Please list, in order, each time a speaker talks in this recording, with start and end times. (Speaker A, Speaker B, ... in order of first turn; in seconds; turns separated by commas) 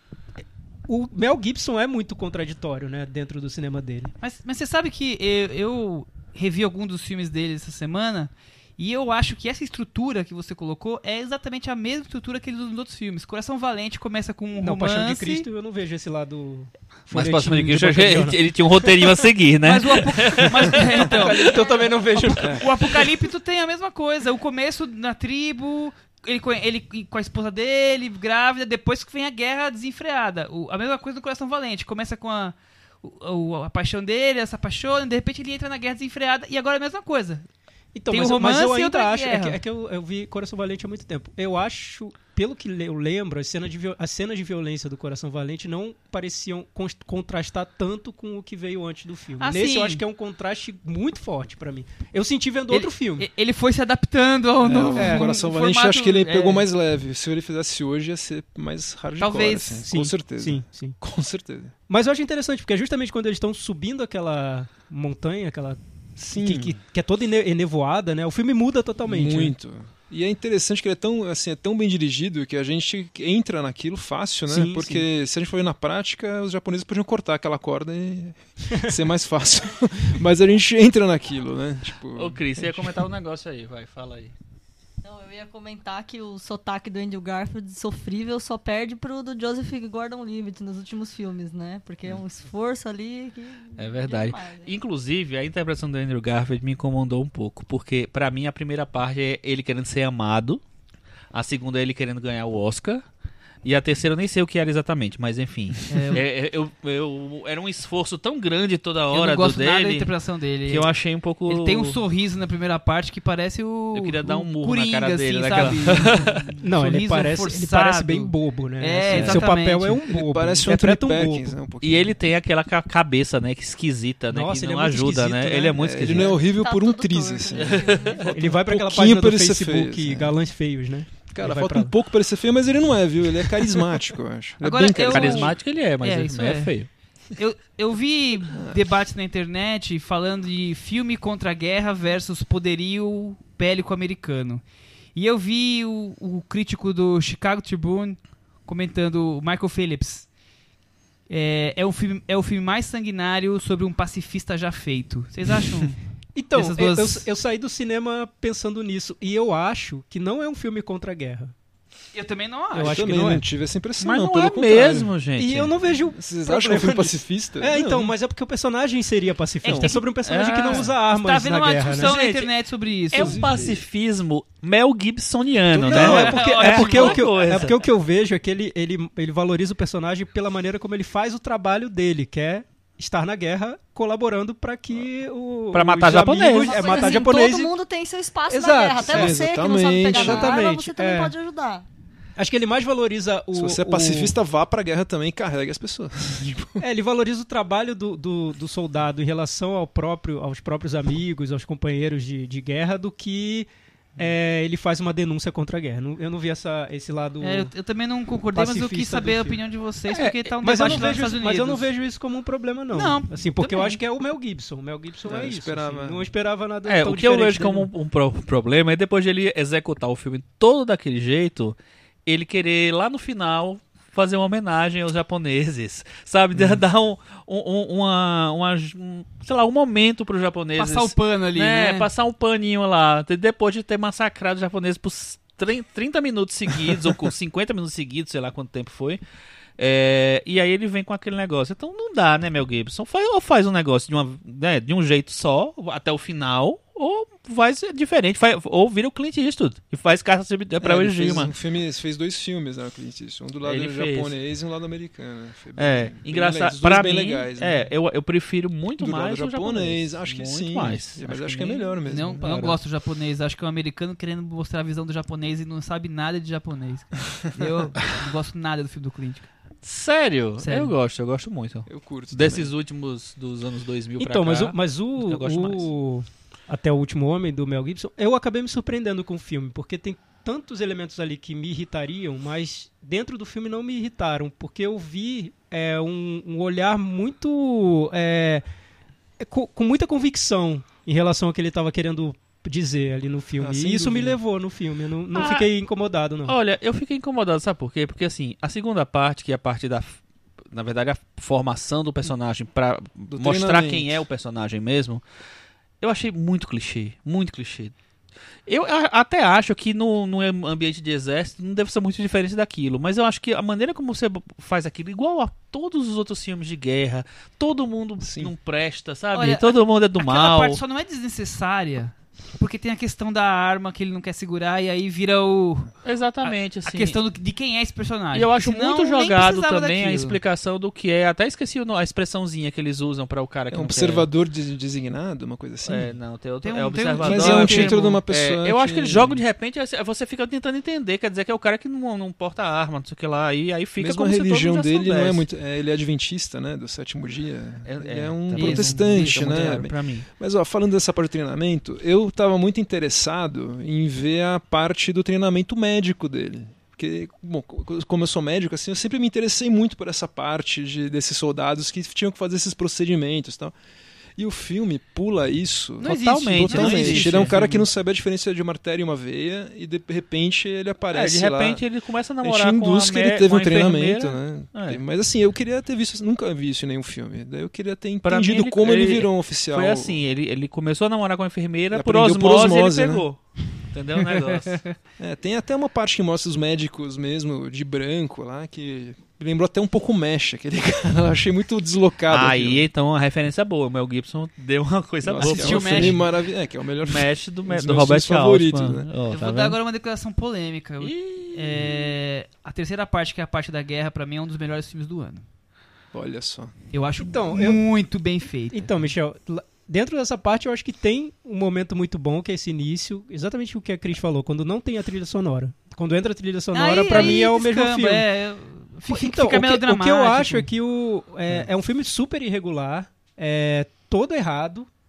Speaker A: 0.9-4.1, Speaker B: 4.2-15.5, Speaker A: 14.6-19.3, Speaker C: 17.1-21.1, Speaker B: 19.6-21.5, Speaker A: 20.5-23.0, Speaker B: 22.1-37.5, Speaker A: 37.9-53.3, Speaker B: 38.1-39.6, Speaker B: 49.4-50.0, Speaker B: 52.7-56.7, Speaker D: 54.6-61.7, Speaker A: 54.8-55.3, Speaker B: 59.2-59.9, Speaker A: 59.8-61.0, Speaker A: 61.9-69.5, Speaker D: 66.2-66.8, Speaker D: 69.0-83.0, Speaker A: 74.5-75.0, Speaker C: 82.2-84.3, Speaker E: 85.0-94.7, Speaker C: 93.8-100.6, Speaker C: 101.3-103.0, Speaker C: 103.6-110.1, Speaker B: 105.9-106.2, Speaker B: 109.1-110.9, Speaker C: 110.7-112.0, Speaker B: 111.5-120.0, Speaker C: 113.9-116.5, Speaker A: 116.6-121.6, Speaker C: 119.1-119.4, Speaker D: 120.1-122.1, Speaker C: 121.8-126.4, Speaker A: 124.3-126.2, Speaker D: 125.8-130.3, Speaker E: 126.2-128.3, Speaker C: 127.5-128.3, Speaker A: 128.3-131.9, Speaker D: 131.3-135.5, Speaker B: 134.6-136.7, Speaker C: 135.1-136.9, Speaker B: 137.3-144.6, Speaker D: 138.5-138.8, Speaker B: 145.1-150.3, Speaker B: 151.3-156.0, Speaker A: 156.3-161.5, Speaker B: 156.5-157.3, Speaker B: 162.1-163.0, Speaker A: 162.7-163.4, Speaker D: 162.8-165.1, Speaker C: 164.0-165.7, Speaker A: 165.4-172.1, Speaker D: 166.2-168.1, Speaker B: 169.6-170.0, Speaker C: 169.7-170.9, Speaker B: 171.0-173.4, Speaker C: 171.9-172.5, Speaker C: 173.1-177.8, Speaker D: 173.1-173.8, Speaker A: 175.7-187.7, Speaker B: 175.9-177.4, Speaker C: 185.7-187.2, Speaker E: 186.6-191.8, Speaker A: 188.5-189.4, Speaker D: 189.0-190.6, Speaker A: 190.1-191.3, Speaker A: 192.4-194.4, Speaker D: 193.5-196.8, Speaker A: 196.8-207.7, Speaker B: 207.4-211.9, Speaker A: 208.5-209.6, Speaker C: 210.1-210.9, Speaker A: 210.6-217.9, Speaker B: 212.9-214.0, Speaker D: 215.2-216.2, Speaker C: 216.8-239.2, Speaker D: 226.5-226.8, Speaker B: 230.8-232.1, Speaker C: 239.8-251.5, Speaker D: 250.8-257.8, Speaker C: 253.6-254.3, Speaker C: 255.8-262.8, Speaker D: 259.0-262.4, Speaker B: 262.1-269.5, Speaker C: 269.8-275.9, Speaker B: 270.6-270.9, Speaker D: 271.9-272.7, Speaker A: 274.2-288.6, Speaker A: 289.4-296.6, Speaker D: 293.6-294.4, Speaker C: 295.3-295.7, Speaker C: 296.5-300.2, Speaker C: 300.7-305.2, Speaker D: 303.3-304.2, Speaker C: 306.0-307.9, Speaker C: 308.7-320.8, Speaker D: 318.2-318.5, Speaker B: 319.3-330.4, Speaker C: 326.0-327.2, Speaker C: 328.3-334.3, Speaker D: 333.7-336.1, Speaker C: 335.9-345.4, Speaker B: 336.6-338.2, Speaker D: 337.2-339.4, Speaker D: 344.0-363.7, Speaker C: 347.8-350.3, Speaker B: 348.6-349.7, Speaker D: 364.4-371.8, Speaker B: 366.0-367.8, Speaker C: 366.0-367.7, Speaker C: 371.1-375.0, Speaker D: 372.4-380.1, Speaker C: 378.2-383.4, Speaker D: 381.9-383.2, Speaker C: 383.9-384.9, Speaker D: 385.2-392.9, Speaker C: 392.3-396.3, Speaker D: 395.2-399.1, Speaker B: 395.4-396.2, Speaker C: 397.0-399.8, Speaker B: 399.3-405.4, Speaker C: 401.0-402.0, Speaker D: 406.1-406.7, Speaker B: 406.9-408.9, Speaker A: 407.2-407.8, Speaker A: 408.7-418.3, Speaker B: 416.7-420.7, Speaker A: 419.1-424.9